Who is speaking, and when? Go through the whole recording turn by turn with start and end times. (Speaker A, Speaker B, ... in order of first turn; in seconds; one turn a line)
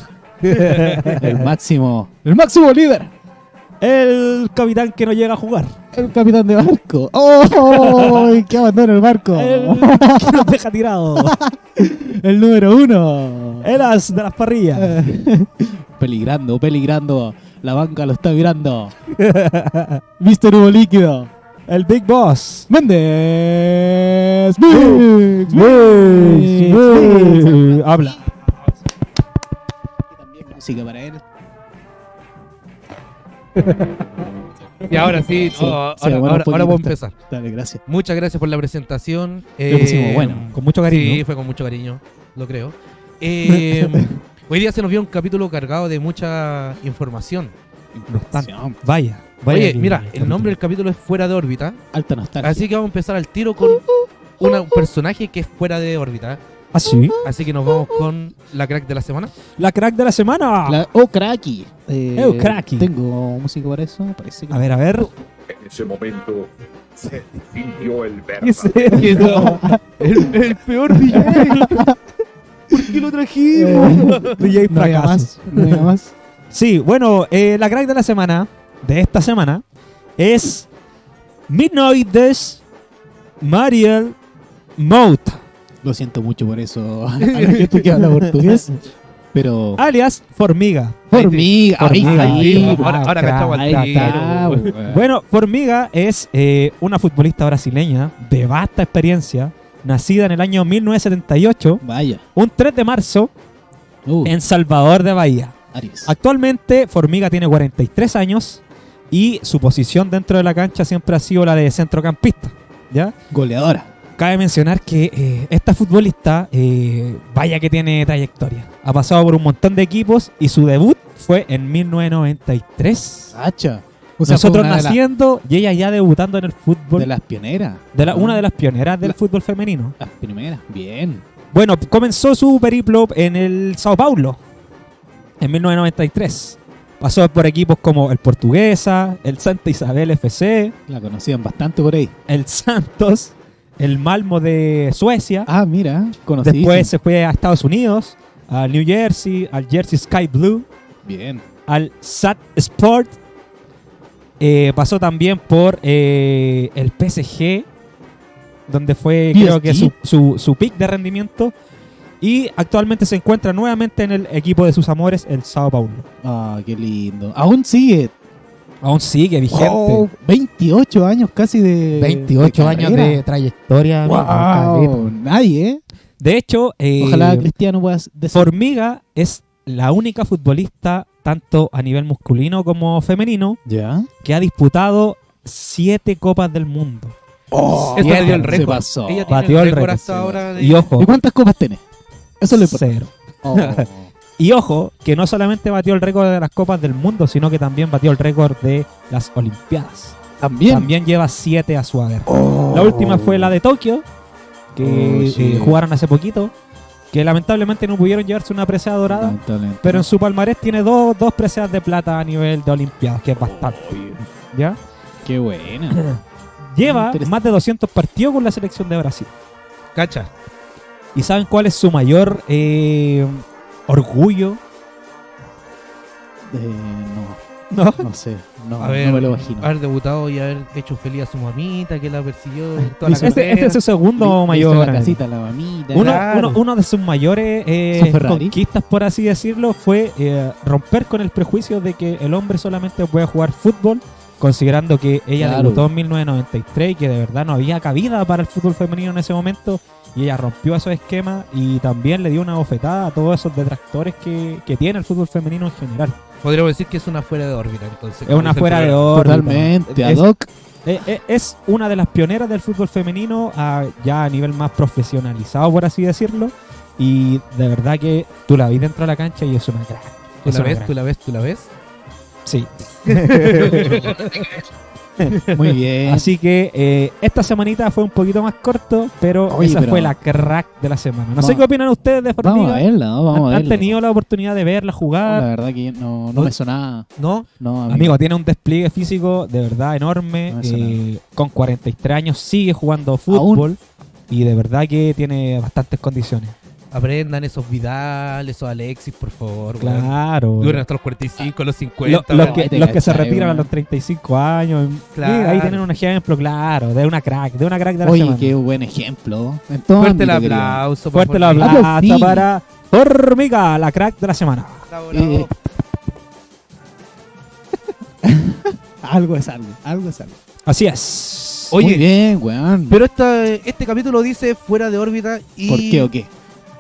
Speaker A: 0.4-1.5
Speaker B: 0.5-1.2
Speaker C: 1.2-3.1
Speaker A: 3.8-5.8
Speaker C: 5.9-10.5
Speaker A: 7.6-8.5
Speaker A: 9.3-11.4
Speaker C: 11.2-13.7
Speaker A: 13.6-15.1
Speaker C: 14.7-18.9
Speaker A: 19.1-20.0
Speaker C: 20.2-21.3
Speaker A: 21.7-22.7
Speaker C: 22.7-28.0
Speaker A: 24.7-28.2
Speaker C: 30.1-31.2
Speaker A: 33.6-33.8
Speaker B: 34.9-37.1
Speaker C: 35.5-37.8
Speaker B: 37.9-47.5
Speaker C: 39.7-40.5
Speaker A: 40.5-41.2
Speaker A: 43.5-43.9
Speaker C: 47.9-48.8
Speaker A: 48.1-50.5
Speaker B: 49.5-51.8
Speaker C: 51.9-52.7
Speaker B: 52.4-53.8
Speaker B: 54.4-56.4
Speaker A: 56.7-57.2
Speaker B: 57.2-59.3
Speaker A: 59.6-60.9
Speaker C: 60.7-64.7
Speaker A: 62.1-62.9
Speaker A: 64.5-65.1
Speaker D: 65.5-69.4
Speaker B: 68.6-71.8
Speaker C: 68.9-70.3
Speaker A: 69.0-69.5
Speaker C: 71.0-72.0
Speaker A: 71.3-71.8
Speaker B: 72.7-74.4
Speaker C: 73.5-76.1
Speaker A: 73.8-75.9
Speaker A: 76.5-79.6
Speaker A: 80.2-80.7
Speaker A: 81.5-82.6
Speaker A: 83.4-84.2
Speaker A: 84.8-85.4
Speaker C: 85.8-88.8
Speaker B: 87.3-87.8
Speaker C: 89.3-89.8
Speaker A: 89.8-91.1
Speaker C: 91.1-92.9
Speaker B: 91.1-94.2
Speaker A: 91.8-101.8
Speaker C: 93.6-95.0
Speaker C: 101.8-102.2
Speaker A: 102.3-103.3
Speaker C: 104.0-104.3
Speaker A: 104.2-113.1
Speaker C: 105.7-106.1
Speaker C: 113.3-113.9
Speaker A: 114.2-123.3
Speaker C: 123.3-125.0
Speaker A: 124.2-127.1
Speaker C: 127.0-128.4
Speaker A: 127.9-130.0
Speaker C: 130.0-131.2
Speaker A: 131.5-134.4
Speaker A: 135.4-140.8
Speaker C: 140.9-142.1
Speaker A: 142.3-145.5
Speaker C: 145.5-146.9
Speaker A: 146.4-150.7
Speaker C: 151.1-151.4
Speaker A: 151.7-153.2
Speaker A: 154.4-157.7
Speaker A: 158.7-161.5
Speaker C: 159.3-159.9
Speaker A: 162.2-166.1
Speaker C: 166.2-168.1
Speaker A: 168.8-170.1
Speaker C: 169.5-173.2
Speaker A: 172.2-173.2
Speaker E: 172.8-174.9
Speaker C: 174.0-175.8
Speaker A: 174.1-175.1
Speaker A: 176.2-177.5
Speaker C: 177.0-178.5
Speaker A: 178.3-183.6
Speaker C: 183.7-184.1
Speaker A: 184.2-187.2
Speaker C: 187.5-189.4
Speaker B: 187.7-190.9
Speaker A: 187.9-191.2
Speaker C: 191.0-191.8
Speaker C: 192.4-192.9
Speaker A: 192.5-204.1
Speaker C: 193.4-194.1
Speaker C: 200.4-200.9
Speaker C: 202.3-203.5
Speaker A: 204.7-206.5
Speaker C: 204.8-205.8
Speaker A: 207.1-213.8
Speaker C: 209.1-210.1
Speaker C: 213.4-214.3
Speaker A: 214.5-214.8
Speaker C: 215.2-216.0
Speaker A: 215.9-219.3
Speaker C: 216.8-217.3
Speaker B: 219.9-220.3
Speaker A: 221.2-224.6
Speaker C: 226.5-227.4
Speaker A: 227.7-228.1
Speaker C: 228.0-229.7
Speaker B: 228.8-233.8
Speaker C: 232.8-233.5
Speaker A: 233.2-235.2
Speaker C: 234.2-236.2
Speaker A: 235.9-256.2
Speaker B: 235.9-236.6
Speaker C: 237.9-238.6
Speaker C: 245.4-245.9
Speaker B: 256.4-259.2
Speaker A: 258.3-260.3
Speaker C: 259.1-260.5
Speaker A: 260.9-270.9
Speaker B: 270.4-271.7
Speaker A: 272.4-274.2
Speaker B: 273.1-274.6
Speaker B: 275.3-275.6
Speaker C: 275.5-276.3
Speaker A: 276.0-285.5
Speaker C: 279.5-280.1
Speaker C: 281.4-281.6
Speaker C: 282.4-283.9
Speaker C: 285.3-287.1
Speaker B: 287.2-287.5
Speaker C: 287.6-288.2
Speaker A: 287.9-296.6
Speaker C: 290.5-291.0
Speaker C: 293.3-293.7
Speaker B: 296.9-302.7
Speaker A: 299.8-300.8
Speaker A: 302.0-308.6
Speaker C: 302.3-303.7
Speaker B: 305.1-305.8
Speaker C: 308.0-310.8
Speaker B: 310.0-311.9
Speaker A: 311.1-314.9
Speaker C: 311.6-312.5
Speaker B: 314.9-315.5
Speaker C: 315.1-315.5
Speaker C: 318.2-320.4
Speaker A: 320.7-321.8
Speaker B: 321.7-322.1
Speaker C: 321.8-323.0
Speaker B: 322.9-326.1
Speaker C: 325.7-326.3